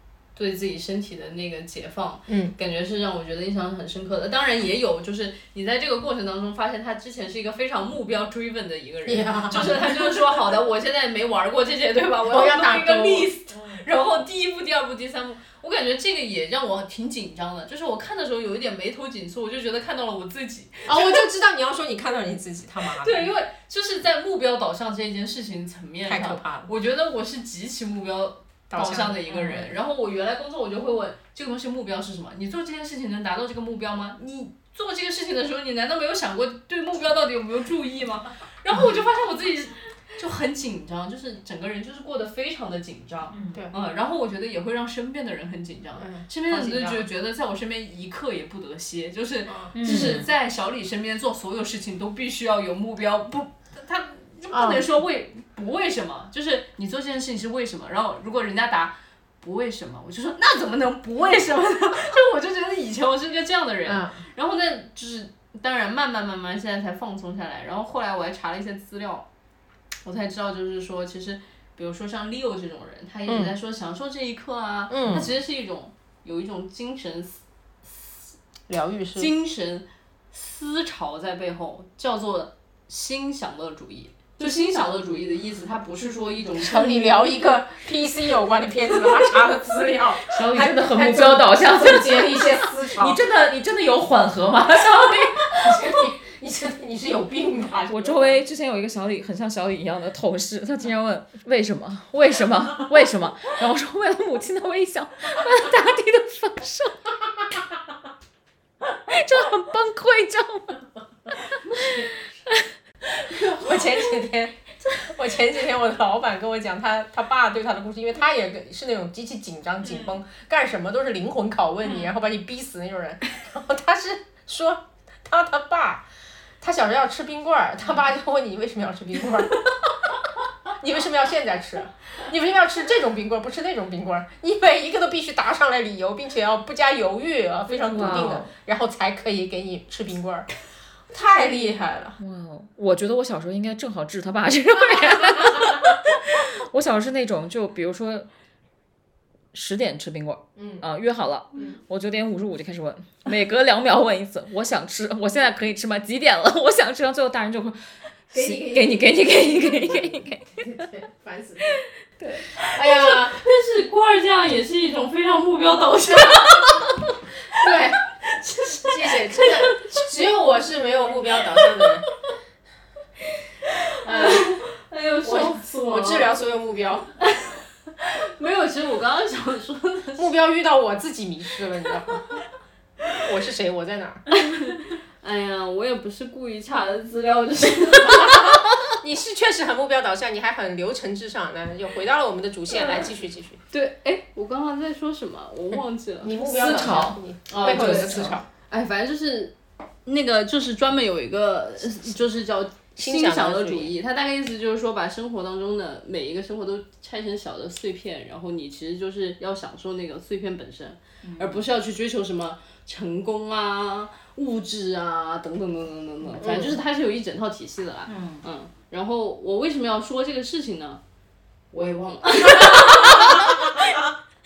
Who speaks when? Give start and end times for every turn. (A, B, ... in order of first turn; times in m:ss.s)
0:00.3-0:21.2 A
0:02.3-0:02.5 B
0:09.0-0:10.4 B
0:12.2-0:13.3 B
0:20.9-0:23.3 B
0:22.9-1:09.3 A
0:26.1-0:26.7 B
0:28.7-0:29.2 B
0:29.3-0:29.7 C
0:43.3-0:43.6 C
0:46.0-0:47.0 B
0:49.5-0:50.2 B
0:49.7-0:50.2 C
0:54.5-0:54.8 B
1:03.8-1:04.2 B
1:10.0-1:18.3 A
1:13.3-1:13.5 B
1:14.9-1:15.3 B
1:18.7-1:19.3 B
1:19.2-1:27.4 A
1:26.6-1:33.2 B
1:30.3-1:35.8 C
1:34.8-1:38.4 B
1:37.9-1:47.0 C
1:49.1-1:50.8 C
1:53.4-2:06.1 B
2:06.6-2:10.2 B
2:10.7-2:20.5 B
2:17.8-2:18.5 C
2:21.1-2:22.2 B
2:22.2-2:28.3 C
2:29.5-2:40.7 C
2:30.6-2:30.8 B
2:38.3-2:41.8 B
2:41.7-2:42.5 C
2:42.6-2:43.4 B
2:42.8-2:46.9 A
2:47.5-2:48.0 B
2:48.3-2:49.5 A
2:48.7-2:52.1 B
2:54.0-2:54.5 B
2:54.0-2:56.3 A
2:55.2-2:57.1 B
2:57.2-3:00.3 A
3:00.2-3:02.2 B
3:03.2-3:04.2 B
3:04.4-3:08.6 A
3:08.0-3:13.6 B
3:12.7-3:13.1 A
3:13.7-3:16.4 A
3:16.2-3:18.4 B
3:16.4-3:18.4 C
3:17.5-3:19.5 A
3:20.0-3:41.0 A
3:23.0-3:23.9 B
3:31.2-3:31.6 C
3:36.4-3:36.8 B
3:38.1-3:38.4 C
3:41.7-3:43.8 A